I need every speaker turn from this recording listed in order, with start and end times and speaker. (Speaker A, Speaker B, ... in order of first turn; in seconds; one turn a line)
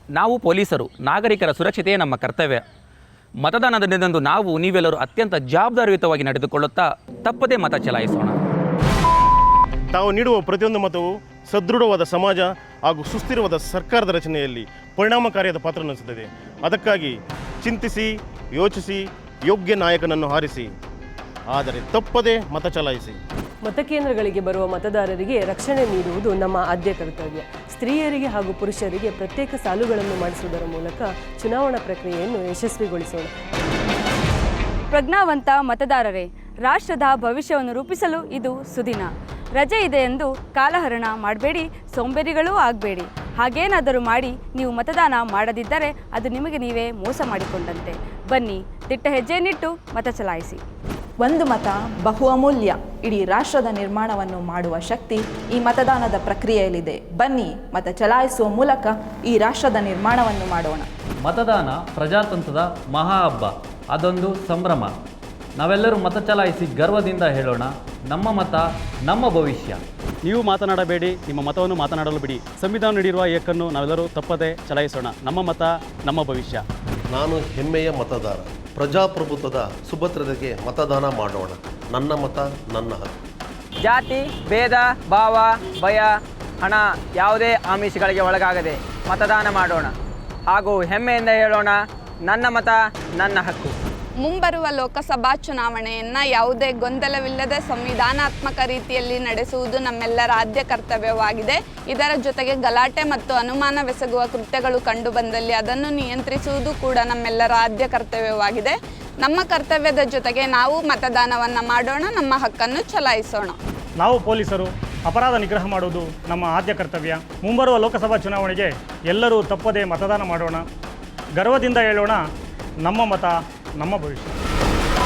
Speaker A: 0.2-0.9
Speaker B: 0.7-2.6
Speaker B: 3.4-8.3
Speaker C: 9.9-20.7
Speaker C: 21.5-23.2
Speaker D: 23.6-33.3
Speaker A: 34.9-50.6
Speaker E: 51.2-60.9
Speaker F: 61.2-64.9
Speaker F: 65.5-69.8
Speaker G: 70.2-76.6
Speaker H: 77.2-83.1
Speaker I: 83.8-89.9
Speaker I: 90.5-93.7
Speaker J: 94.2-113.6
Speaker K: 114.0-120.6
Speaker K: 121.4-122.2
Speaker K: 122.8-124.3